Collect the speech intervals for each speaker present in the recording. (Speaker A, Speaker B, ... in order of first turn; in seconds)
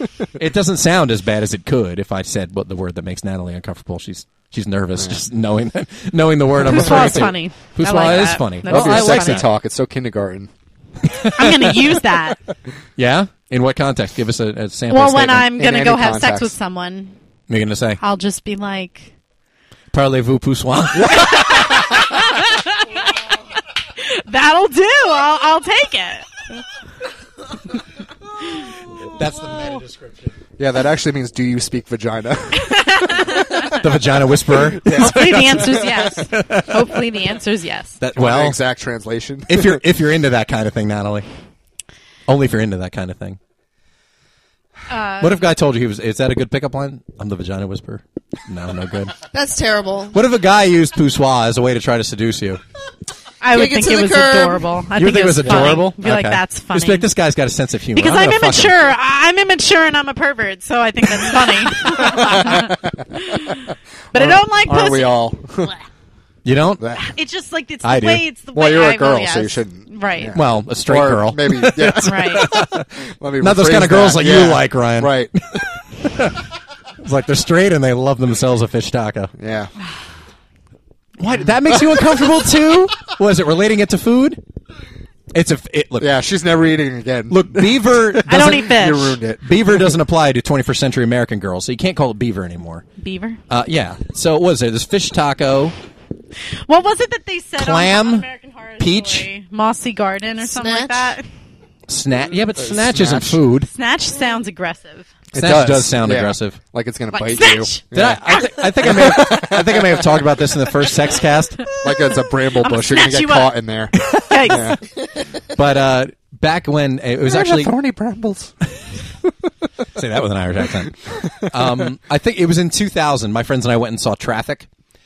Speaker A: 0.3-9.5, 11.1-12.0, 13.0-15.5, 17.5-18.0, 19.9-22.2, 28.9-30.4, 33.6-37.0, 38.0-38.6, 39.5-41.3, 42.3-43.4, 45.2-49.1, 50.1-52.6, 55.0-58.9, 66.5-66.9, 67.8-68.2, 70.3-76.4, 77.0-79.3, 81.2-84.4, 85.3-86.1, 87.3-92.9, 93.5-95.7, 97.6-98.3, 98.8-99.3, 101.9-103.7, 105.3-106.6, 107.9-111.7, 114.0-114.7, 115.5-117.7, 119.9-124.7
Speaker B: 6.6-9.4, 11.4-12.4, 14.9-17.2, 18.0-19.1, 21.1-23.0, 23.9-26.5, 32.6-33.8, 34.9-38.0, 44.9-45.5, 53.4-57.1, 57.9-65.8, 67.0-70.4, 72.0-72.5, 88.3-89.2, 93.0-93.4, 96.7-101.3, 103.7-105.2, 107.1-109.4, 111.7-113.5, 114.3-114.8
Speaker C: 6.7-7.3, 8.7-10.5, 15.5-16.5, 20.9-21.7, 30.6-33.4, 34.7-36.0, 38.2-39.8, 55.5-55.8, 61.8-63.4, 64.1-65.7, 66.8-67.1, 68.5-75.3, 79.4-79.7, 86.0-89.9, 102.6-103.4, 105.3-110.0, 111.8-114.8, 117.2-118.5, 121.0-121.7
Speaker D: 49.3-50.2, 53.5-54.7, 100.4-101.2